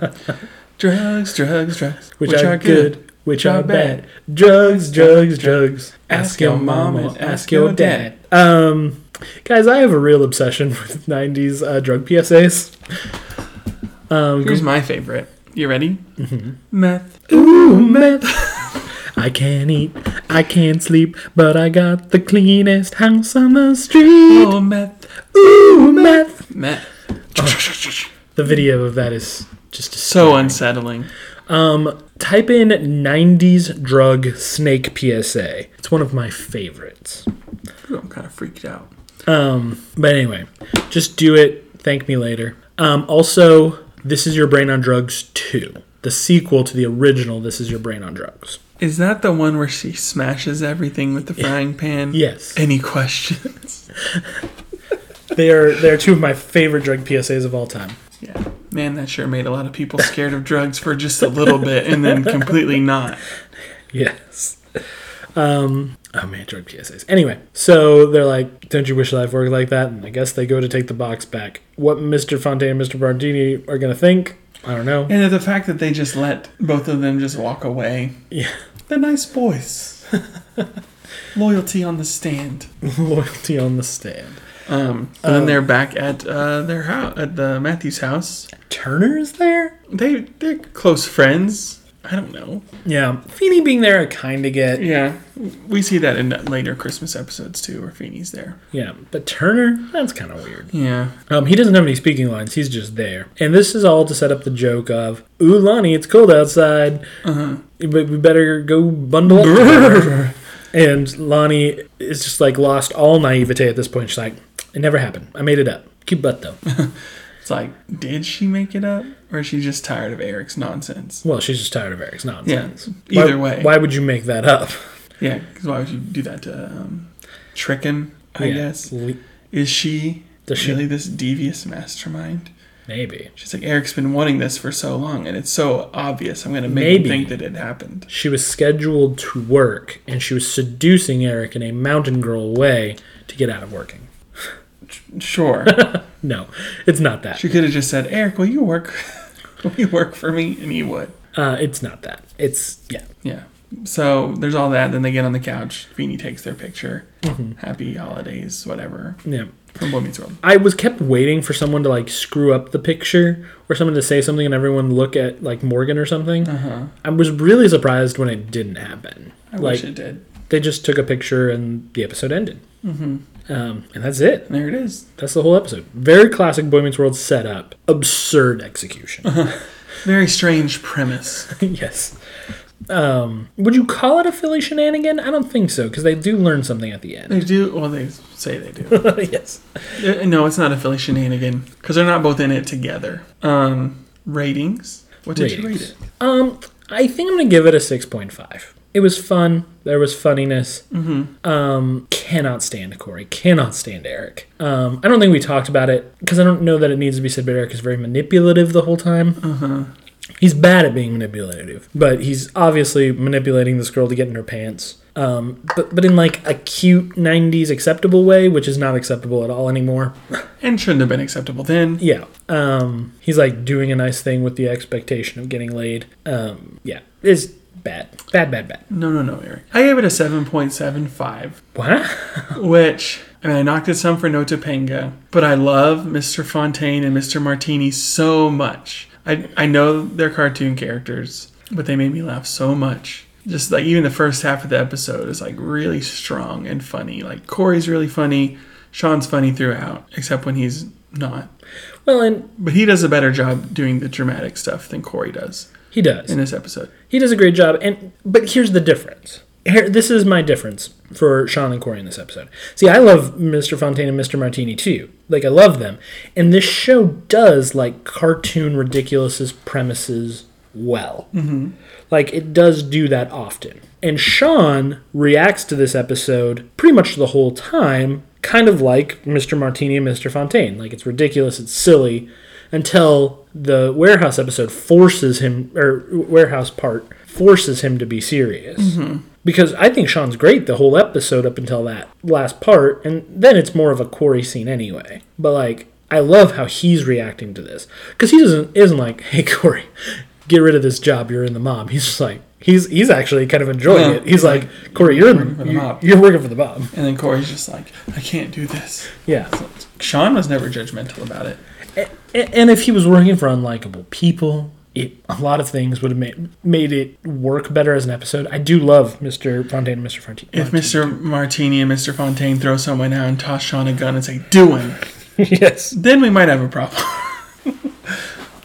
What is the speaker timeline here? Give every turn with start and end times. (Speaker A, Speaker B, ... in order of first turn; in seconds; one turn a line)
Speaker A: 0.8-8.1
Speaker B: 2.2-12.7
Speaker B: 14.1-14.7
Speaker A: 14.4-16.0
Speaker B: 16.2-16.5
Speaker A: 16.7-18.5
Speaker B: 17.3-18.4
Speaker B: 19.1-24.6
Speaker A: 24.3-25.1
Speaker B: 25.3-26.4
Speaker A: 25.9-28.1
Speaker B: 27.4-27.6
Speaker B: 28.3-30.6
Speaker A: 30.1-31.1
Speaker B: 31.5-37.3
Speaker A: 37.9-38.9
Speaker B: 39.3-48.6
Speaker A: 48.8-53.9
Speaker B: 52.1-52.6
Speaker B: 55.3-58.0
Speaker A: 58.2-63.2
Speaker B: 63.9-64.8
Speaker B: 65.3-75.1
Speaker A: 75.1-78.2
Speaker A: 78.9-80.0
Speaker A: 81.3-82.7
Speaker B: 82.8-84.4
Speaker A: 84.7-88.5
Speaker B: 85.2-85.6
Speaker B: 88.7-89.7
Speaker A: 89.9-92.6
Speaker B: 92.8-94.9
Speaker A: 94.7-98.6
Speaker B: 98.7-100.7
Speaker A: 100.7-101.1
Speaker B: 101.3-107.0
Speaker A: 107.2-107.6
Speaker B: 107.8-116.6
Speaker A: 109.3-110.3
Speaker A: 116.7-116.9
Speaker A: 117.4-121.2
Speaker B: 121.2-124.8
Speaker A: 122.4-123.8
Speaker A: 125.2-128.9
Speaker B: 128.4-129.2
Speaker A: 129.5-132.5
Speaker B: 130.5-130.8
Speaker B: 132.9-133.3
Speaker A: 133.4-138.1
Speaker B: 136.7-137.3
Speaker B: 138.1-144.1
Speaker A: 144.8-145.9
Speaker B: 145.7-147.4
Speaker A: 147.3-151.1
Speaker B: 151.3-153.0
Speaker A: 153.2-159.2
Speaker B: 157.2-157.5
Speaker B: 159.2-159.5
Speaker A: 159.7-160.4
Speaker B: 160.4-166.5
Speaker A: 166.4-166.9
Speaker B: 167.0-169.9
Speaker A: 169.5-170.2
Speaker B: 170.5-172.6
Speaker A: 172.8-173.2
Speaker B: 173.5-174.5
Speaker A: 174.5-175.0
Speaker B: 175.2-179.4
Speaker A: 179.2-181.5
Speaker B: 181.5-182.2
Speaker B: 182.9-187.4
Speaker A: 187.3-189.1
Speaker B: 188.9-189.6
Speaker A: 190.0-195.9
Speaker B: 195.3-200.8
Speaker A: 200.9-201.3
Speaker B: 201.4-209.4
Speaker A: 209.4-209.9
Speaker B: 210.4-220.2
Speaker A: 220.6-222.0
Speaker B: 222.0-228.8
Speaker A: 228.9-231.6
Speaker B: 231.7-232.6
Speaker A: 232.5-251.5
Speaker B: 252.0-252.5
Speaker A: 252.6-255.7
Speaker B: 255.9-256.3
Speaker A: 256.3-256.9
Speaker B: 257.1-271.3
Speaker A: 271.3-271.7
Speaker B: 272.1-299.9
Speaker A: 288.8-289.2
Speaker B: 300.4-306.9
Speaker A: 303.9-306.0
Speaker A: 306.9-311.6
Speaker B: 309.2-309.6
Speaker B: 311.9-321.2
Speaker A: 320.5-325.0
Speaker B: 325.4-325.9
Speaker A: 325.9-328.1